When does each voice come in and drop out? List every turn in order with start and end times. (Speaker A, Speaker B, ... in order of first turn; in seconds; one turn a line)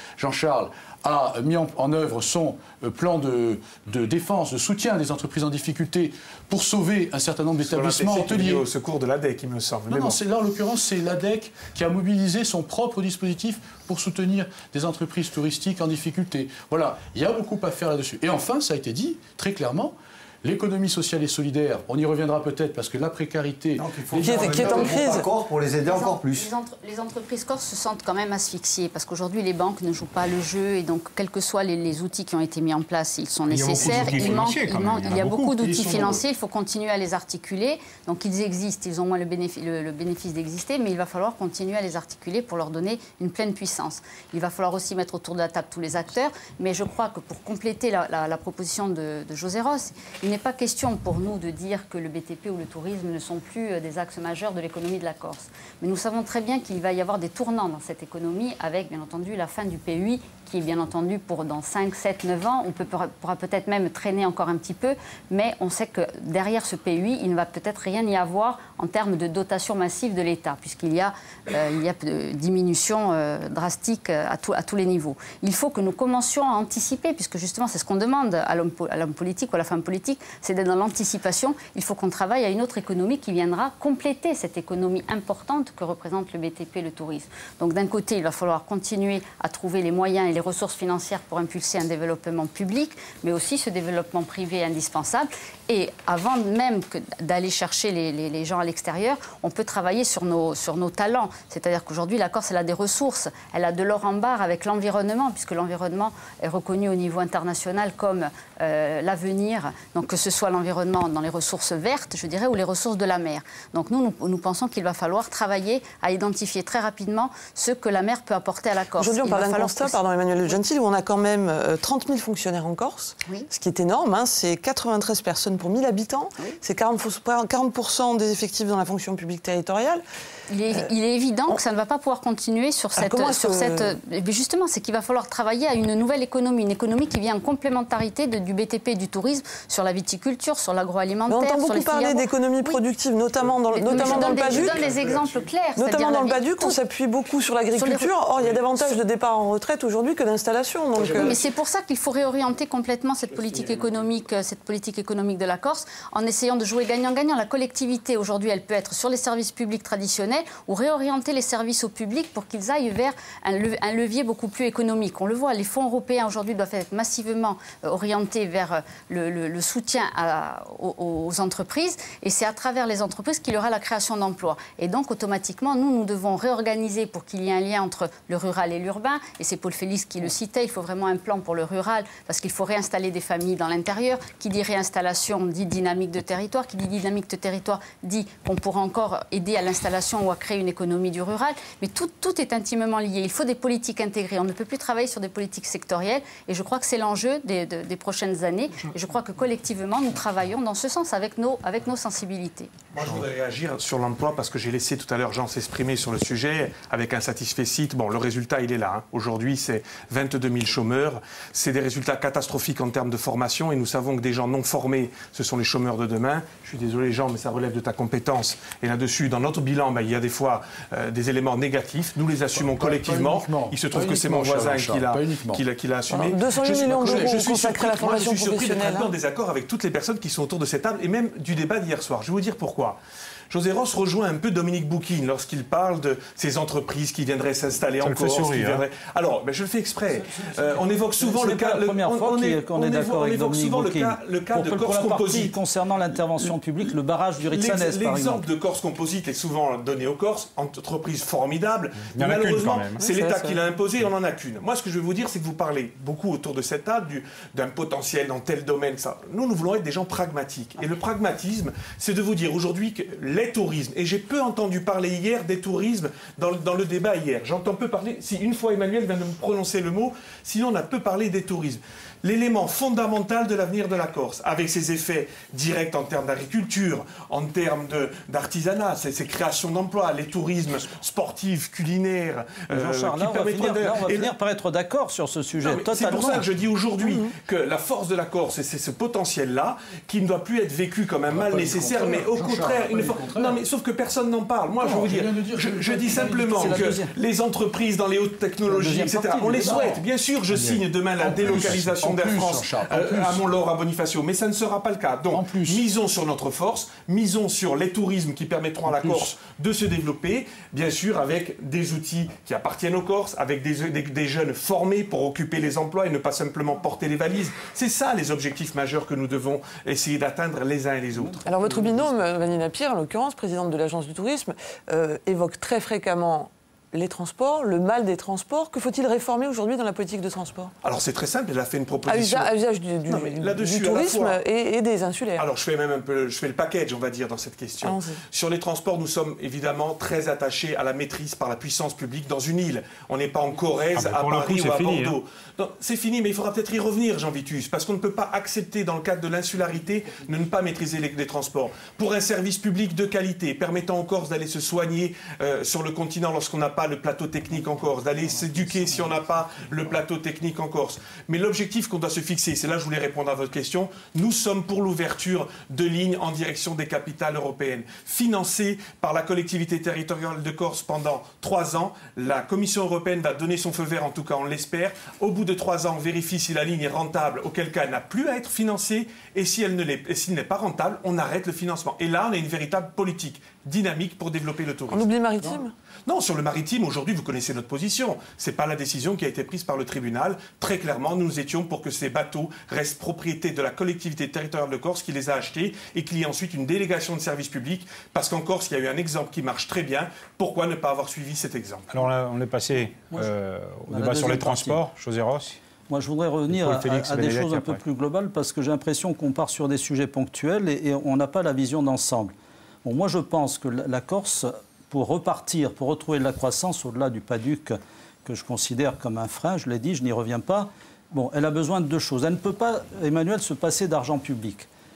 Speaker A: 0.2-8.7
Speaker B: 7.7-10.2
Speaker A: 9.9-25.1
Speaker C: 23.8-26.5
Speaker D: 24.2-25.3
Speaker E: 25.8-120.5
Speaker F: 33.5-36.2
Speaker A: 33.8-34.5
Speaker D: 119.0-130.0
Speaker E: 130.5-142.8
Speaker D: 133.0-133.9
Speaker D: 141.3-144.9
Speaker E: 143.7-146.8
Speaker B: 143.9-145.3
Speaker D: 145.8-151.5
Speaker E: 147.8-148.6
Speaker B: 151.0-151.4
Speaker E: 151.1-202.8
Speaker B: 153.4-154.0
Speaker B: 202.9-233.0
Speaker A: 222.5-225.6
Speaker D: 226.1-229.1
Speaker A: 226.6-227.7
Speaker B: 233.5-245.6
Speaker F: 238.0-238.8
Speaker G: 240.1-248.4
Speaker B: 247.4-284.3
Speaker F: 252.1-253.0
Speaker D: 253.0-253.6
Speaker G: 282.7-286.4
Speaker B: 285.6-321.4
Speaker D: 287.0-287.3
Speaker A: 291.3-293.6
Speaker A: 294.8-297.0
Speaker G: 296.2-297.1
Speaker G: 298.7-300.0
Speaker F: 300.5-300.8
Speaker A: 301.2-303.5
Speaker A: 305.3-305.8
Speaker A: 308.9-309.3
Speaker G: 321.1-322.2
Speaker D: 321.5-330.7
Speaker B: 330.8-332.5
Speaker D: 332.1-335.5
Speaker B: 333.1-334.4
Speaker B: 335.4-402.0
Speaker D: 337.8-338.2
Speaker F: 344.0-345.2
Speaker D: 384.9-385.7
Speaker F: 401.9-405.6
Speaker G: 403.9-404.8
Speaker G: 405.9-412.3
Speaker F: 406.5-407.8
Speaker G: 412.9-424.7